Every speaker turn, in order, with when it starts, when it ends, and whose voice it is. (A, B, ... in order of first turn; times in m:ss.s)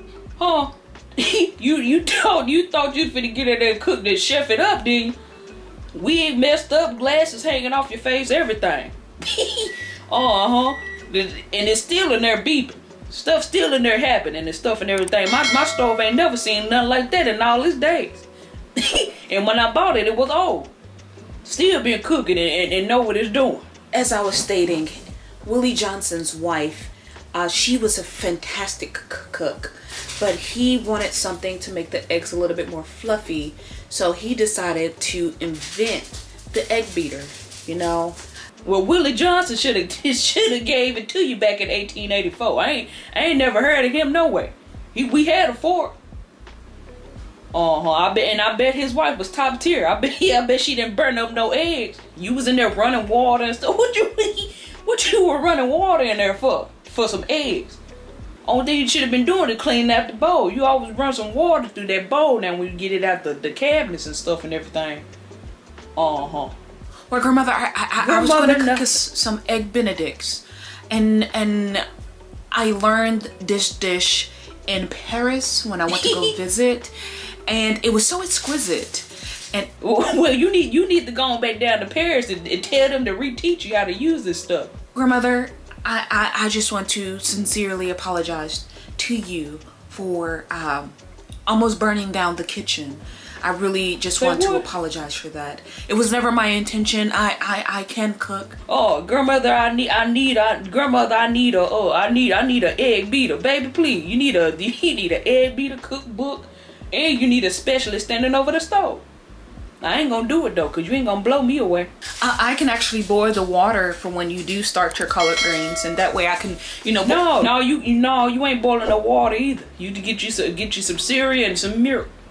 0:00.4-0:05.2 A
0:05.9-0:18.2 A
0:18.8-0:20.7 A
0:21.4-0:23.7 A
0:23.9-0:38.2 B
0:38.6-0:46.0 A
0:47.5-0:57.8 A
0:58.4-1:05.1 A
1:06.0-1:06.6 A
1:07.1-1:11.8 B
1:08.0-1:09.0 A
1:12.5-1:16.9 B
1:15.9-1:16.4 A
1:17.5-1:19.7 B
1:19.8-1:24.7 A
1:25.0-1:31.0 B
1:31.5-1:38.6 B
1:34.2-1:34.7 A
1:38.7-1:49.0 A
1:49.8-1:51.9 A
1:52.2-1:57.5 B
1:57.0-2:02.1 A